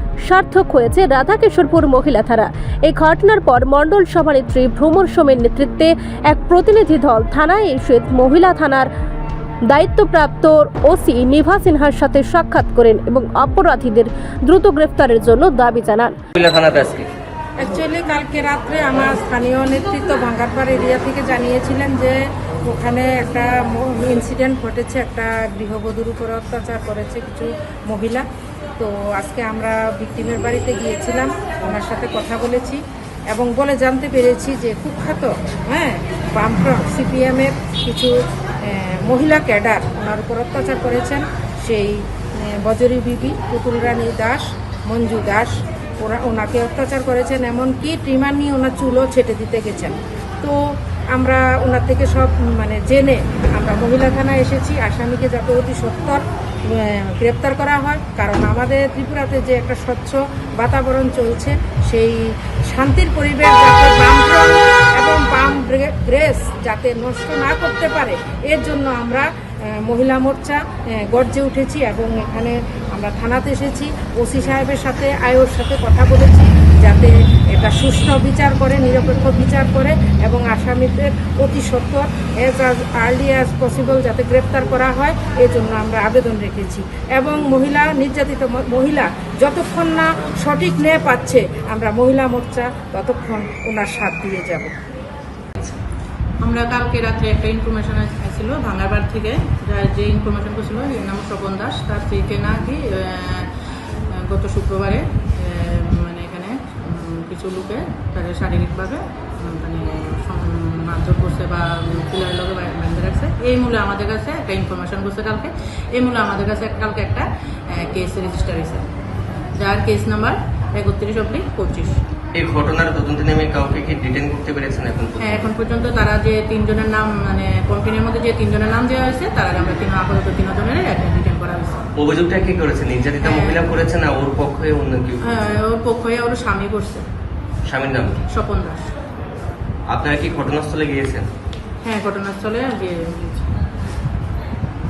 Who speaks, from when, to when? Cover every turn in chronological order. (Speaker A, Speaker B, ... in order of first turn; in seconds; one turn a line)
Speaker A: 0.2-8.9
Speaker A: 9.7-16.1
Speaker B: 16.4-17.1
Speaker C: 17.6-28.2
Speaker C: 28.8-94.7
Speaker D: 96.4-103.5
Speaker D: 104.1-118.9
Speaker D: 119.6-122.0
Speaker B: 122.3-125.5
Speaker D: 125.2-131.9
Speaker B: 131.9-135.5
Speaker D: 133.2-133.8
Speaker D: 135.2-137.0
Speaker B: 137.7-138.2
Speaker D: 138.3-138.9
Speaker B: 139.9-141.3
Speaker D: 141.8-143.5